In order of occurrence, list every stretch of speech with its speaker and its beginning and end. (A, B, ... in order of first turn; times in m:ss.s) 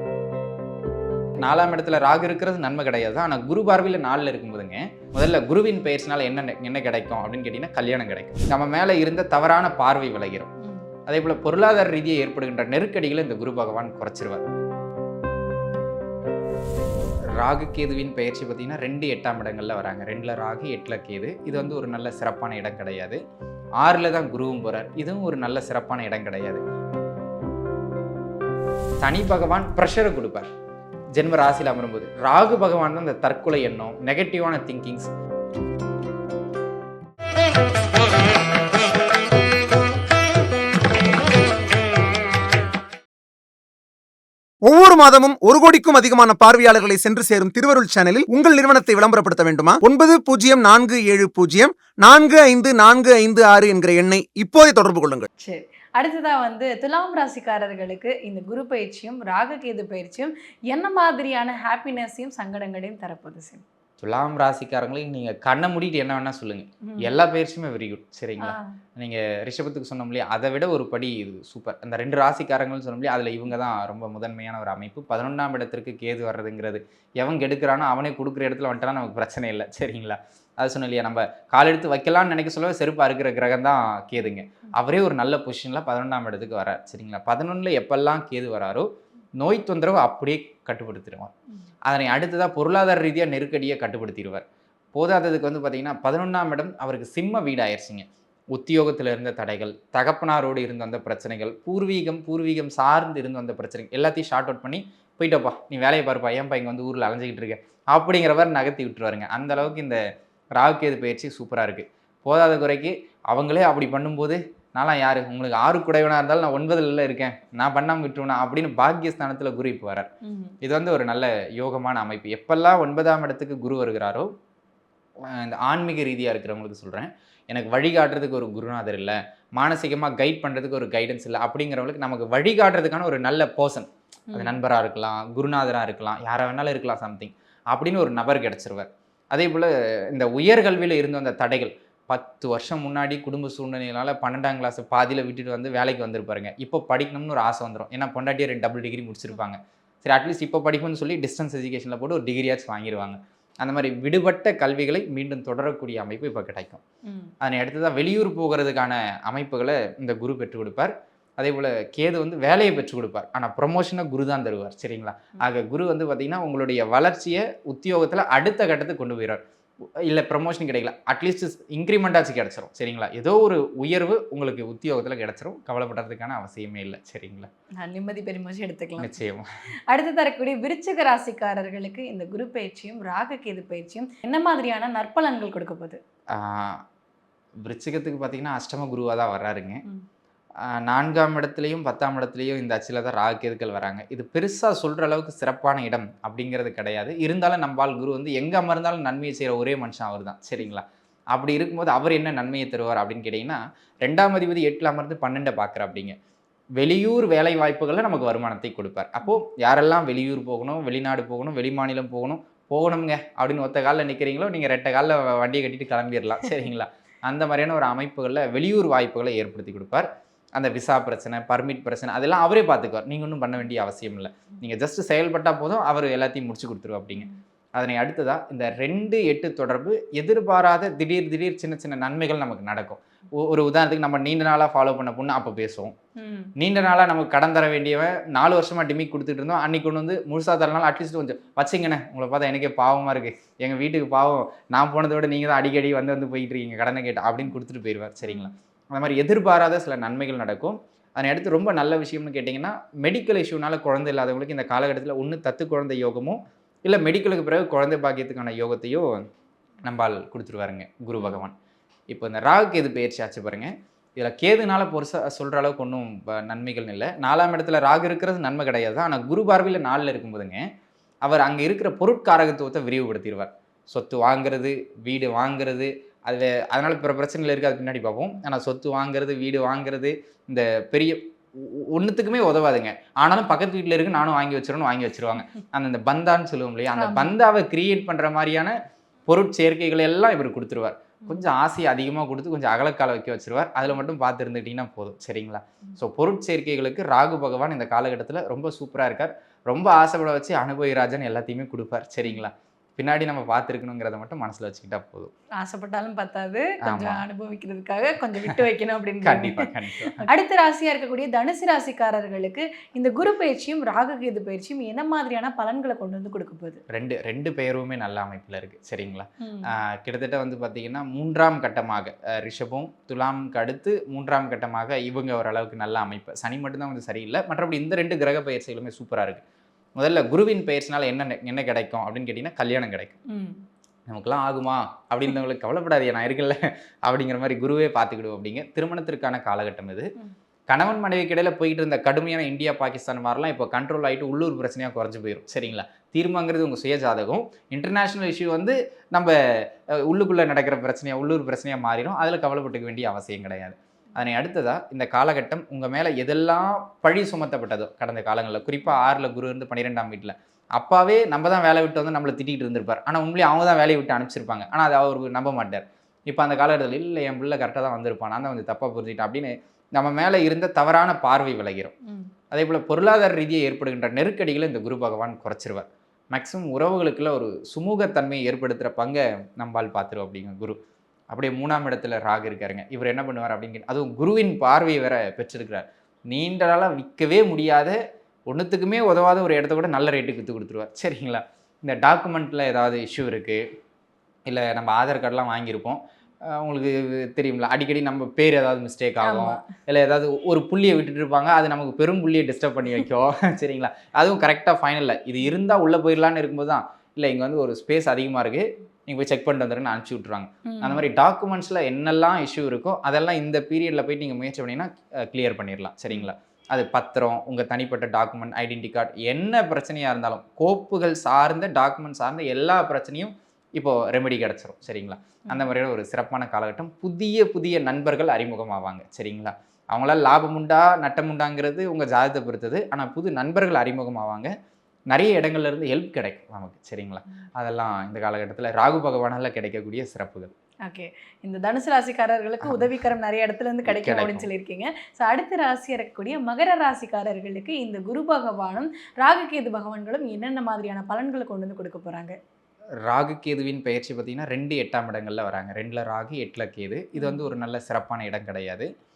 0:01.4-0:10.5 A
0:11.1-0:14.5 A
0:17.4-0:23.2 A
0:23.8-0:26.6 A
0:29.0-0:30.5 A
0:31.1-0:35.1 A
0:44.6-0:55.3 B
0:55.4-1:03.6 C
1:04.0-1:28.9 A
1:06.8-1:07.1 C
1:08.4-1:08.8 C
1:29.4-1:31.3 A
1:31.9-1:50.0 A
1:50.6-2:00.1 A
2:00.2-2:00.5 C
2:00.6-2:04.3 A
2:05.3-2:36.8 A
2:14.3-2:14.6 C
2:37.0-2:37.3 C
2:37.4-2:49.4 A
2:50.1-2:57.5 A
2:57.8-2:59.1 C
2:59.0-2:59.4 A
2:59.9-3:06.0 C
3:06.3-3:06.8 A
3:07.6-3:09.8 A
3:10.7-3:26.2 A
3:26.8-3:55.9 A
3:56.2-3:56.5 C
3:56.6-4:19.1 A
4:08.2-4:08.5 C
4:19.8-4:21.5 A
4:21.2-4:21.4 C
4:22.1-4:30.6 A
4:31.2-4:48.7 A
4:47.0-4:47.4 C
4:49.3-5:05.3 A
5:05.6-5:16.8 C
5:06.8-5:07.2 A
5:09.2-5:10.2 A
5:16.9-5:29.4 A
5:19.4-5:19.7 C
5:30.0-5:33.2 A
5:33.3-5:33.6 C
5:34.1-5:40.1 A
5:40.7-5:49.3 A
5:50.0-6:11.9 A
6:12.0-6:12.3 C
6:12.5-6:20.8 A
6:21.3-6:28.0 A
6:28.5-6:33.6 A
6:34.5-7:14.5 A
6:39.2-6:39.6 C
6:50.6-6:51.0 C
7:15.1-7:20.5 A
7:20.8-7:32.4 C
7:22.6-7:22.9 A
7:23.8-7:24.5 A
7:33.0-7:38.9 A
7:37.2-7:37.5 C